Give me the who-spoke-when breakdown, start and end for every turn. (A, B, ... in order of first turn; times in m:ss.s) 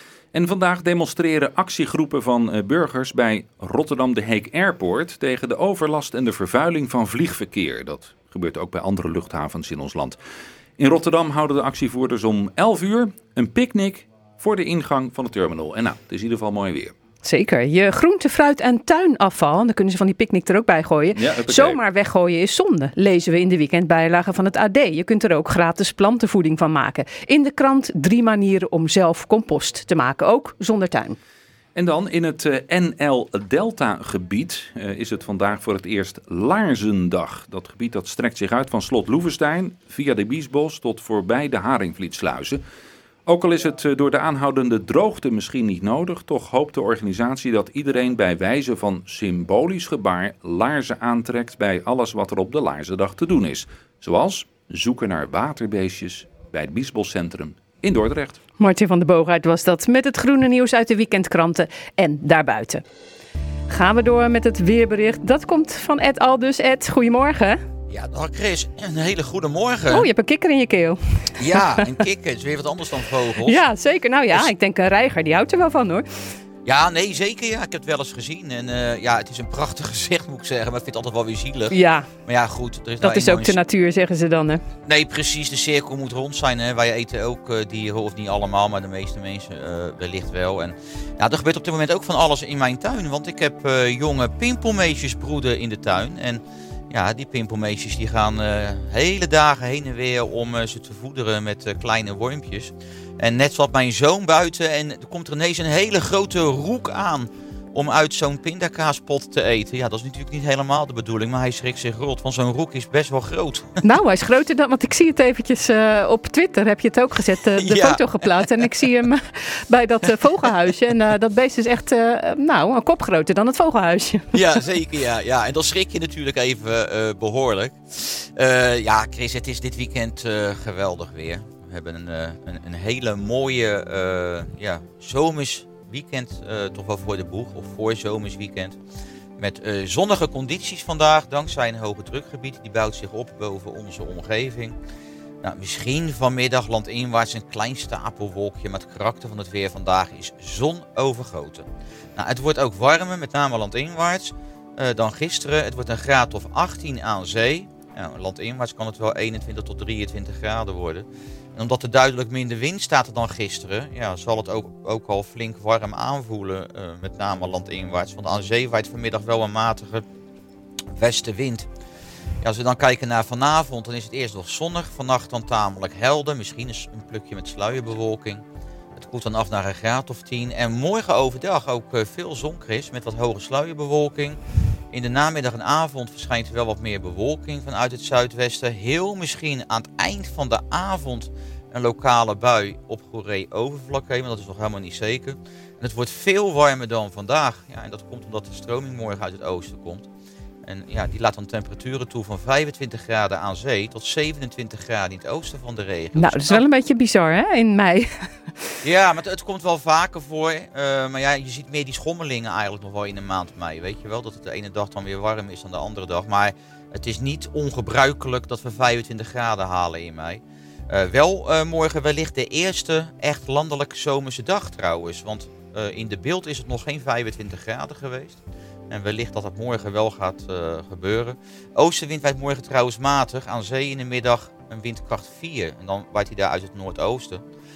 0:00.3-0:10.2 A
0:10.8-0:16.9 A
0:17.2-0:31.2 B
0:21.2-0:21.8 A
0:31.8-0:42.6 A
0:43.2-0:58.4 A
0:58.6-1:02.8 B
1:03.7-1:07.6 B
1:07.9-1:10.1 C
1:09.9-1:11.0 B
1:11.4-1:13.6 C
1:11.5-1:11.9 B
1:13.4-1:16.0 B
1:16.6-1:23.6 C
1:21.7-1:22.1 B
1:23.0-1:24.6 B
1:24.8-1:53.7 C
1:53.8-2:04.4 B
1:57.6-1:58.5 C
2:04.3-2:18.8 C
2:19.4-2:24.7 C
2:25.4-2:50.0 C
2:50.9-2:51.7 C
2:52.4-2:58.4 C
2:58.9-3:04.4 C
3:04.9-3:20.1 C
3:20.6-3:26.6 C
3:26.1-3:28.2 B
3:28.8-3:57.4 C